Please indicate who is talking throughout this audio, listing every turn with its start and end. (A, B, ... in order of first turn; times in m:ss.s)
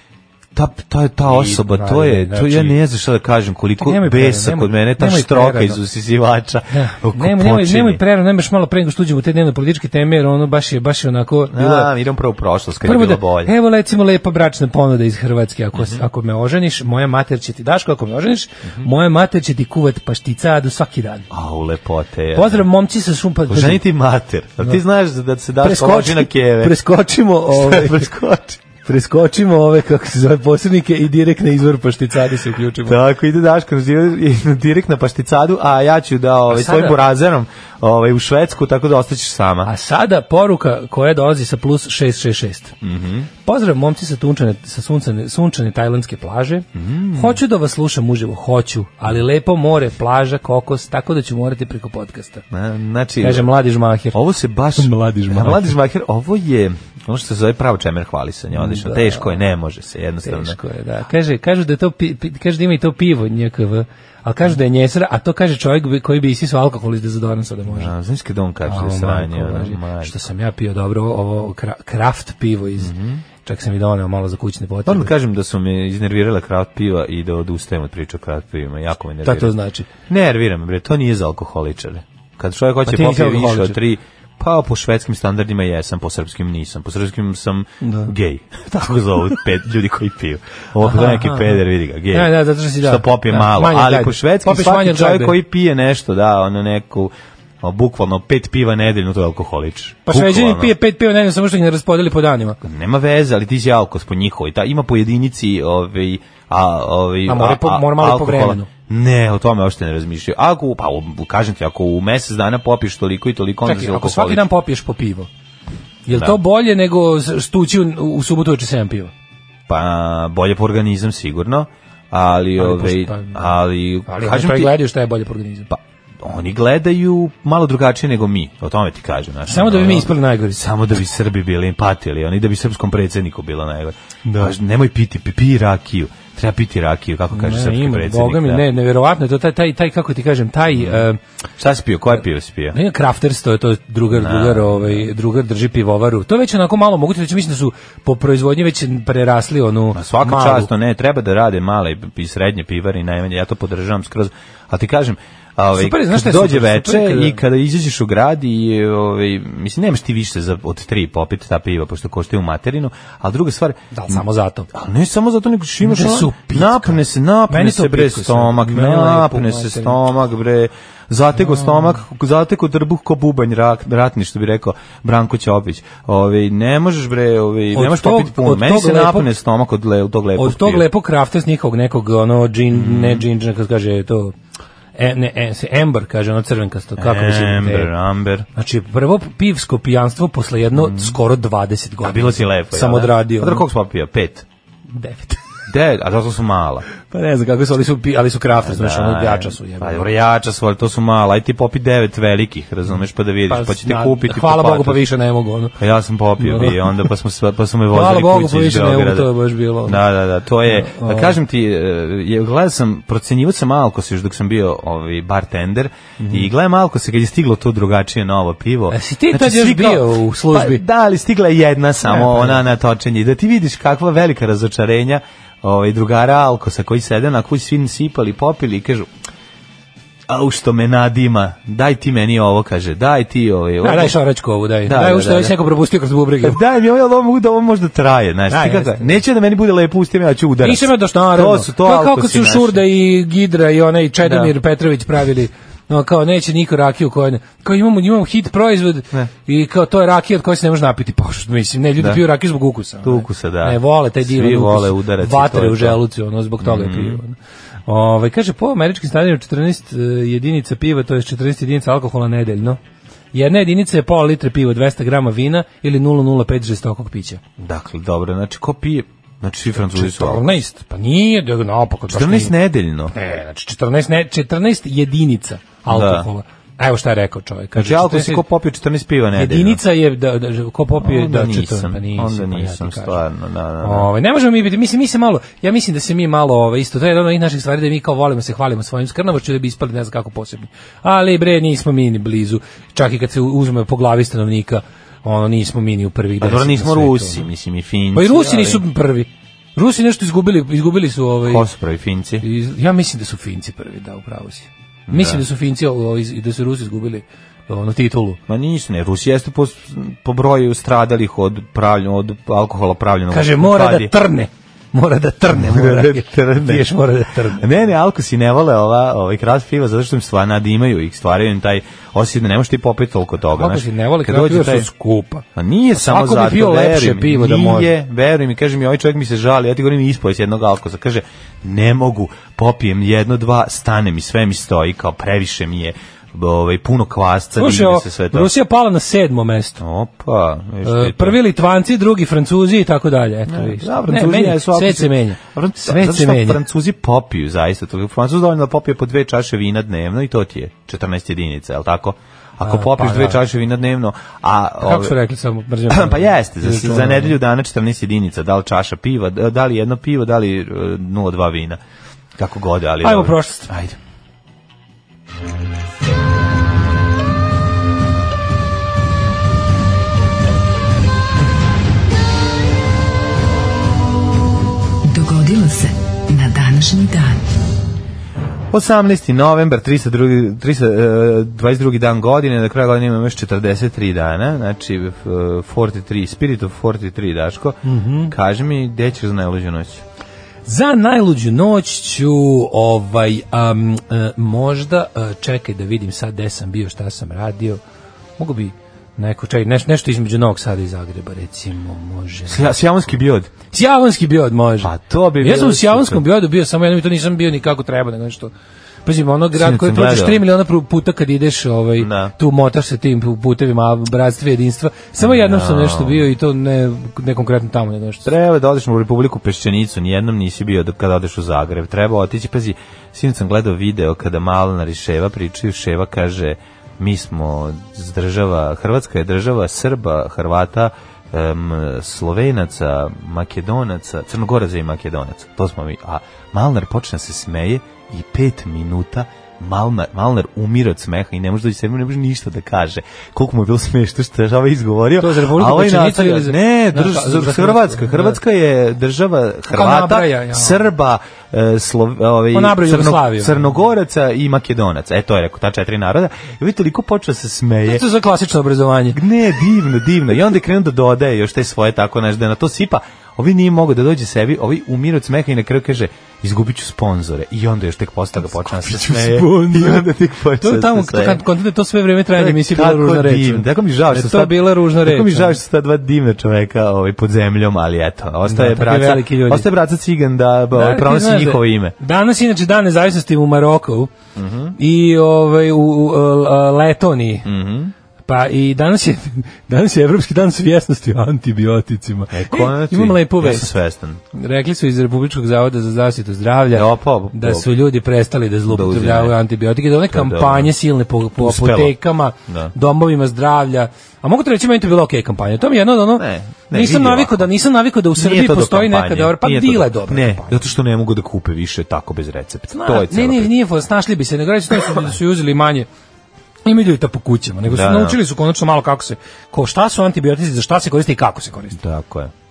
0:00.6-0:08.0 A
0:01.2-0:02.8 B
0:03.8-0:05.8 B
0:06.7-0:11.9 B
0:11.5-0:13.5 A
0:12.8-0:21.3 B
0:15.8-0:16.0 A
0:21.3-0:22.7 A
0:22.4-0:23.9 B
0:23.5-0:26.8 A
0:25.6-0:28.1 B
0:27.5-0:28.6 A
0:28.8-0:33.0 B
0:32.8-0:39.7 A
0:36.5-0:37.0 B
0:39.6-0:42.7 B
0:42.8-0:43.3 A
0:43.4-0:52.4 B
0:46.8-0:47.4 A
0:52.5-0:53.5 A
0:53.2-0:54.2 B
0:54.1-1:00.6 A
0:54.8-0:55.8 B
0:58.5-0:59.4 B
1:00.2-1:07.9 B
1:07.7-1:10.2 A
1:08.7-1:15.1 B
1:12.8-1:13.2 A
1:14.9-1:19.5 A
1:19.2-1:19.9 B
1:20.1-1:40.7 A
1:22.8-1:23.8 B
1:27.8-1:28.1 B
1:30.8-1:31.6 B
1:32.1-1:35.4 B
1:40.1-1:42.6 B
1:42.6-1:54.5 A
1:47.3-1:48.7 B
1:53.6-1:55.3 B
1:56.1-1:59.1 B
1:56.1-1:56.4 A
1:59.7-2:04.7 A
2:02.6-2:03.4 B
2:04.1-2:05.7 B
2:05.7-2:18.6 A
2:09.5-2:10.6 B
2:14.3-2:14.5 B
2:17.3-2:21.2 B
2:20.7-2:21.0 A
2:21.6-2:22.8 A
2:22.7-2:30.7 B
2:24.1-2:25.1 A
2:29.9-3:00.9 A
2:35.7-2:37.4 B
2:43.9-2:44.7 B
2:45.8-2:50.0 B
2:51.4-2:52.0 B
2:57.7-2:59.3 B
3:00.4-3:04.3 B
3:02.7-3:03.2 A
3:05.0-3:07.9 B
3:07.0-3:08.5 A
3:08.5-3:13.7 B
3:10.8-3:11.2 A
3:12.0-3:14.4 A
3:14.9-3:15.4 B
3:15.7-3:16.9 A
3:17.0-3:20.1 B
3:18.6-3:25.1 A
3:23.5-3:25.8 B
3:25.8-3:29.3 A
3:26.4-3:27.1 B
3:27.9-3:30.0 B
3:29.8-3:49.1 A
3:30.7-3:31.4 B
3:36.2-3:36.5 B
3:38.9-3:40.8 B
3:42.0-3:42.6 B
3:50.3-3:54.2 A
3:53.8-3:56.6 B
3:54.9-3:55.6 A
3:56.4-4:02.8 A
3:58.5-3:59.2 B
4:00.6-4:17.4 B
4:04.2-4:04.5 A
4:12.0-4:12.2 A
4:13.0-4:16.0 A
4:16.6-4:17.2 A
4:17.9-4:22.8 B
4:23.3-4:27.4 B
4:27.6-4:30.5 A
4:29.9-4:32.5 B
4:32.1-4:33.1 A
4:33.1-4:38.4 B
4:35.9-4:36.3 A
4:37.8-4:39.8 A
4:39.3-4:43.2 B
4:41.0-4:44.1 A
4:43.8-4:57.5 B
4:56.4-4:58.8 A
4:58.1-5:01.7 B
5:01.4-5:02.4 A
5:02.4-5:08.4 B
5:05.1-5:05.4 A
5:08.5-5:14.1 A
5:13.3-5:17.6 B
5:15.5-5:16.9 A
5:17.5-5:24.9 A
5:23.6-5:27.9 B
5:25.6-5:38.5 A
5:37.6-5:39.8 B
5:39.8-5:41.4 A
5:40.8-5:46.6 B
5:43.5-5:55.2 A
5:52.6-5:53.4 B
5:54.8-5:57.4 B
5:55.9-6:01.8 A
6:02.4-6:04.0 A
6:03.0-6:03.7 B
6:15.1-6:17.4 C
6:18.7-6:30.0 A
6:27.8-6:28.3 B
6:30.7-6:37.8 B
6:38.4-6:42.8 B
6:42.5-6:43.5 A
6:43.7-6:48.5 B
6:44.8-6:46.2 A
6:49.1-6:58.3 B
6:49.5-6:50.4 A
6:52.0-6:52.3 A
6:55.2-6:56.2 A
6:58.2-7:38.0 A
7:25.2-7:28.4 B
7:29.7-7:30.9 B
7:32.5-7:33.6 B
7:37.9-7:39.2 B
7:39.1-7:51.4 A
7:48.4-7:50.1 B
7:50.6-7:55.6 B
7:52.3-8:02.0 A
7:58.5-7:59.7 B
8:00.7-8:04.1 B
8:04.4-8:04.8 A
8:04.8-8:07.5 B
8:07.4-8:07.9 A
8:08.3-8:13.7 B
8:12.3-8:14.2 A
8:14.3-8:30.6 B
8:16.7-8:17.7 A
8:18.7-8:19.4 A
8:20.1-8:20.7 A
8:21.4-8:22.7 A
8:26.2-8:27.5 A
8:28.1-8:33.5 A
8:32.7-8:35.9 B
8:36.6-8:41.8 B
8:37.7-8:38.2 A
8:41.8-8:42.3 A